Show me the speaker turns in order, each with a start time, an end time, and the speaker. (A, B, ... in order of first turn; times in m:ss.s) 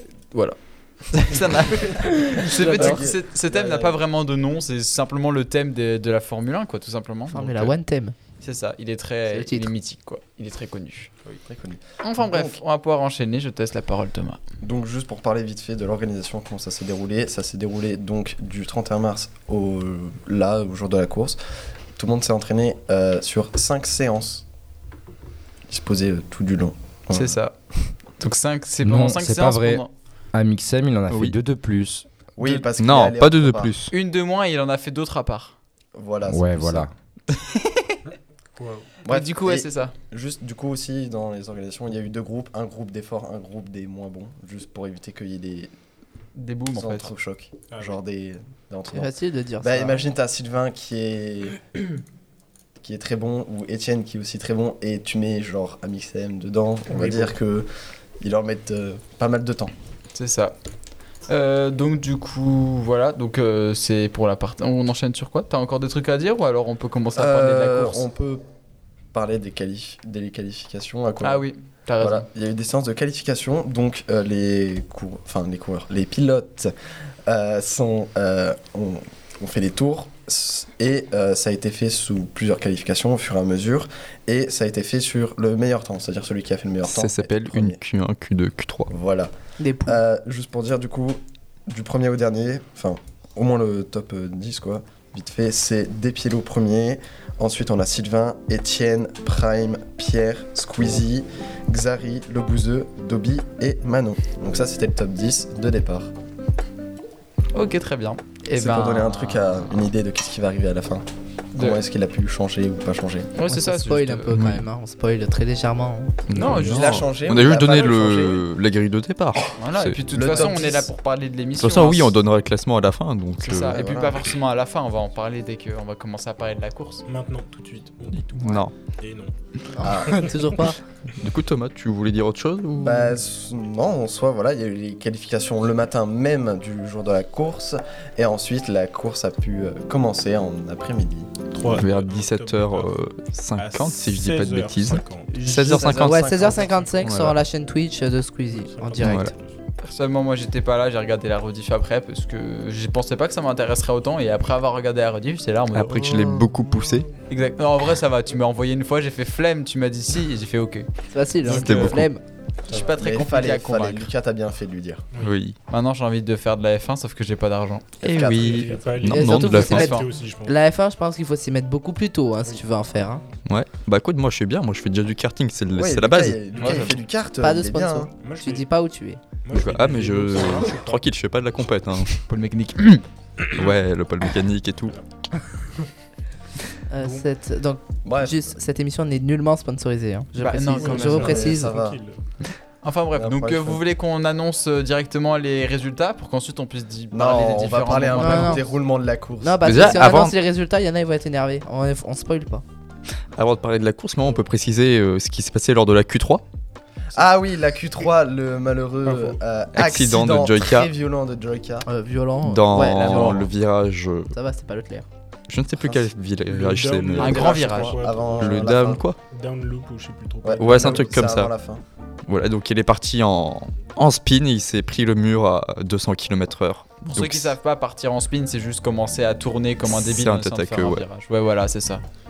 0:00.3-0:07.7 A
0:02.4-0:04.0 B
0:02.6-0:03.0 C
0:07.3-0:08.1 C
0:08.4-0:11.1 A
0:09.3-0:09.7 C
0:11.4-0:12.6 B
0:12.0-0:14.4 A
0:14.6-0:21.4 B
0:22.0-0:24.4 B
0:25.7-0:27.4 B
0:27.1-0:27.5 A
0:28.2-0:29.9 A
0:28.8-0:32.1 D
0:31.1-0:31.3 E
0:32.4-0:33.7 B
0:32.5-0:33.9 E
0:33.9-0:35.6 A
0:35.9-0:36.9 B
0:36.2-0:36.9 D
0:37.3-0:38.0 A
0:38.1-0:38.9 F
0:39.0-0:45.7 B
0:39.1-0:39.9 A
0:46.4-0:47.1 A
0:46.7-0:51.8 B
0:48.9-0:50.0 C
0:52.8-0:57.7 B
0:56.9-0:57.3 F
0:58.2-0:59.7 B
1:00.1-1:00.5 A
1:01.3-1:08.0 A
1:07.2-1:08.4 B
1:09.1-1:11.5 B
1:11.2-1:12.3 A
1:12.0-1:16.7 B
1:17.2-1:27.8 B
1:26.8-1:28.9 E
1:28.9-1:29.3 B
1:29.6-1:30.0 C
1:29.8-1:46.1 B
1:47.5-1:49.7 A
1:48.5-1:53.3 B
1:51.6-1:51.8 A
1:53.3-1:54.4 A
1:53.5-1:56.4 C
1:54.3-1:54.6 E
1:56.3-2:00.0 E
1:56.3-1:56.9 A
1:56.4-1:56.9 F
1:56.6-1:58.4 B
1:59.6-2:02.2 A
2:00.1-2:00.9 B
2:01.6-2:03.8 E
2:03.4-2:07.0 A
2:03.6-2:04.2 B
2:07.1-2:09.3 F
2:08.2-2:08.7 E
2:09.7-2:10.8 C
2:09.8-2:10.2 B
2:09.8-2:10.3 F
2:11.2-2:13.2 E
2:12.8-2:21.4 B
2:21.5-2:22.9 F
2:21.7-2:27.4 E
2:23.6-2:25.3 F
2:25.3-2:29.3 C
2:25.5-2:27.0 B
2:28.5-2:29.6 F
2:29.0-2:29.3 E
2:29.8-2:36.3 A
2:35.7-2:37.1 E
2:37.3-2:40.9 A
2:41.1-2:42.2 C
2:41.4-2:41.9 A
2:41.4-2:42.1 E
2:42.7-2:44.1 A
2:42.7-2:42.9 F
2:43.0-2:45.0 B
2:45.2-2:45.6 E
2:45.7-2:48.0 A
2:48.0-2:48.8 B
2:48.0-2:49.9 E
2:48.4-2:50.5 F
2:49.0-2:53.2 C
2:49.6-2:50.1 A
2:53.5-2:56.8 E
2:55.7-2:58.1 B
2:56.5-2:56.8 F
2:56.6-2:56.9 A
2:57.4-2:59.2 C
2:58.2-2:58.7 F
2:59.4-3:01.0 F
2:59.5-3:02.2 E
3:02.3-3:03.0 A
3:03.4-3:03.7 F
3:03.5-3:05.0 E
3:06.9-3:11.8 C
3:07.0-3:07.2 F
3:08.0-3:08.6 B
3:10.4-3:11.2 A
3:10.8-3:12.2 F
3:11.1-3:12.0 B
3:12.8-3:18.6 A
3:13.2-3:13.8 B
3:17.1-3:20.1 B
3:18.2-3:18.6 C
3:19.4-3:22.6 C
3:19.6-3:20.4 E
3:23.3-3:26.4 E
3:27.1-3:31.9 B
3:29.0-3:29.4 F
3:29.7-3:30.9 E
3:31.8-3:33.4 C
3:32.4-3:34.3 E
3:32.8-3:33.5 A
3:34.3-3:35.0 C
3:35.5-3:37.5 E
3:35.8-3:36.1 B
3:36.4-3:41.3 F
3:37.2-3:38.0 A
3:37.2-3:39.0 B
3:38.4-3:39.2 E
3:40.4-3:41.8 B
3:40.6-3:41.5 E
3:42.3-3:47.6 E
3:47.0-3:52.0 A
3:49.9-3:51.0 E